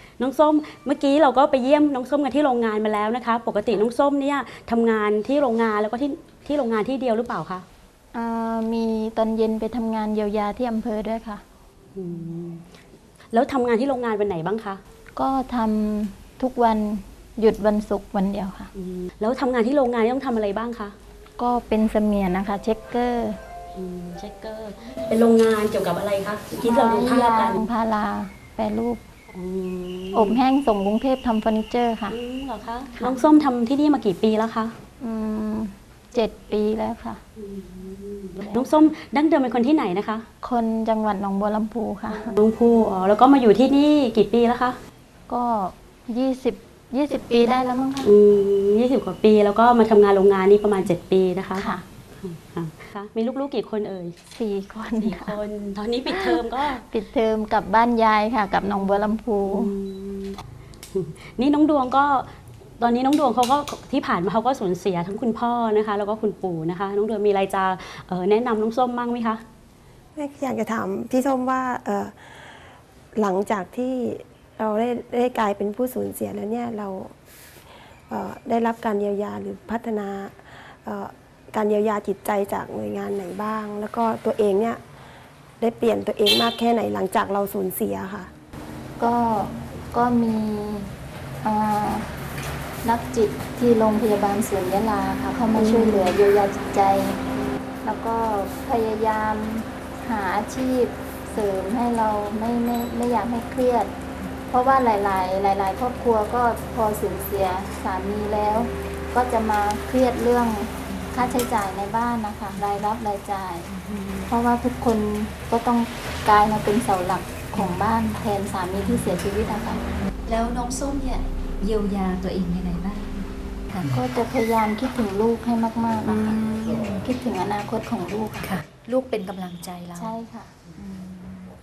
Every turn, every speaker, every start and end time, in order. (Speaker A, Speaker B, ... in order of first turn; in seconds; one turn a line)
Speaker A: 0.2-7.6
Speaker B: 8.1-11.4
Speaker A: 11.9-12.6
Speaker A: 13.3-14.8
Speaker B: 15.1-18.7
Speaker A: 18.7-20.9
Speaker B: 21.4-23.4
Speaker A: 23.8-27.6
Speaker B: 26.6-29.0
Speaker A: 29.3-30.4
Speaker B: 30.1-32.1
Speaker A: 32.1-34.7
Speaker B: 35.0-37.2
Speaker A: 37.4-40.2
Speaker B: 38.4-38.6
Speaker B: 40.4-42.4
Speaker A: 42.1-44.8
Speaker B: 45.3-48.1
Speaker A: 48.0-51.7
Speaker B: 51.5-51.8
Speaker A: 52.2-54.1
Speaker B: 54.3-55.4
Speaker A: 55.0-56.8
Speaker B: 56.1-59.7
Speaker A: 59.4-60.4
Speaker A: 60.9-62.3
Speaker A: 62.8-69.4
Speaker C: 70.2-72.1
Speaker C: 73.1-77.1
Speaker C: 78.1-84.8
Speaker C: 85.6-88.3
Speaker B: 89.0-90.9
Speaker B: 91.4-92.1
Speaker B: 92.8-97.2
Speaker C: 95.6-96.2
Speaker B: 97.8-103.9
Speaker B: 104.5-113.7
Speaker D: 110.9-111.2
Speaker D: 113.7-114.3
Speaker B: 114.3-119.8
Speaker D: 120.2-123.9
Speaker B: 123.9-126.4
Speaker D: 126.0-127.0
Speaker B: 127.0-128.5
Speaker D: 128.4-130.1
Speaker B: 129.9-130.5
Speaker D: 130.7-131.5